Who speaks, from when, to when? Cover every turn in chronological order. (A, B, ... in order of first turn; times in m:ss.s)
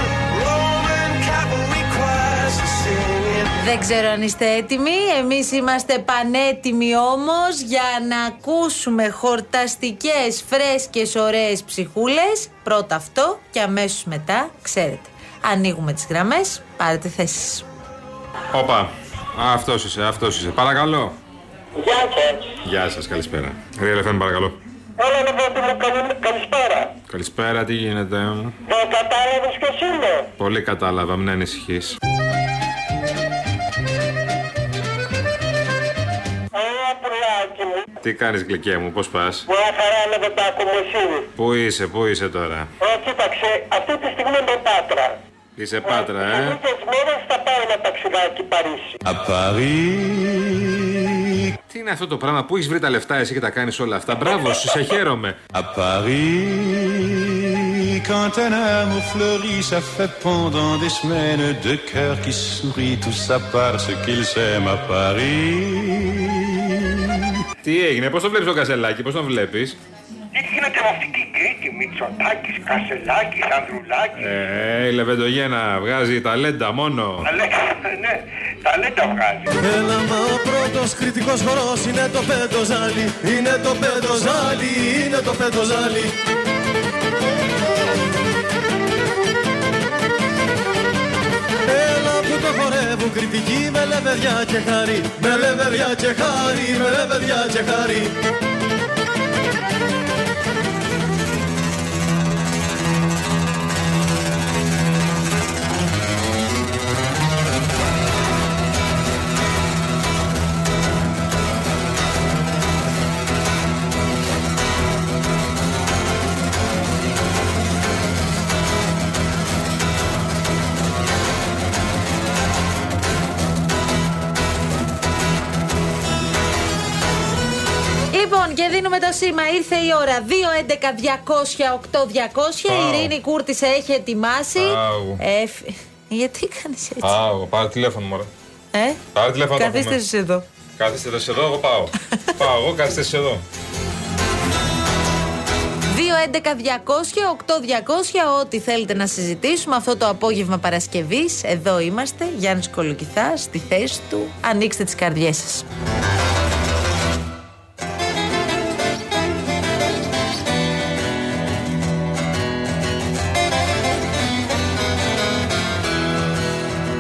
0:03.6-0:17.6 A
0:18.5-0:21.2 B
0:21.8-0:22.6 C
0:22.6-0:24.6 B
0:25.0-0:27.0 C
0:27.1-0:28.6 B
0:28.7-0:30.3 C
0:30.4-0:32.0 B
0:36.5-0:37.9 C
0:38.0-0:39.5 B
0:39.5-0:41.3 C
0:41.4-0:42.7 B
0:42.8-0:45.2 C
0:45.6-0:46.6 B
0:45.8-0:48.9 C
0:49.1-0:50.6 D
0:51.7-0:55.4 B
0:55.6-0:57.2 D
0:58.0-1:06.4 D
1:07.6-1:09.8 B
1:10.4-1:14.2 C
1:14.1-1:17.3 B
1:17.3-1:19.5 C
1:19.6-1:26.1 E
1:31.7-1:38.1 E
2:08.1-2:17.2 A
2:12.7-2:13.2 B
2:14.6-2:15.2 B
2:17.0-2:18.3 B
2:18.7-2:19.0 A
2:19.2-2:20.0 B
2:19.6-2:20.4 A
2:20.8-2:23.4 B
2:25.9-2:35.7 A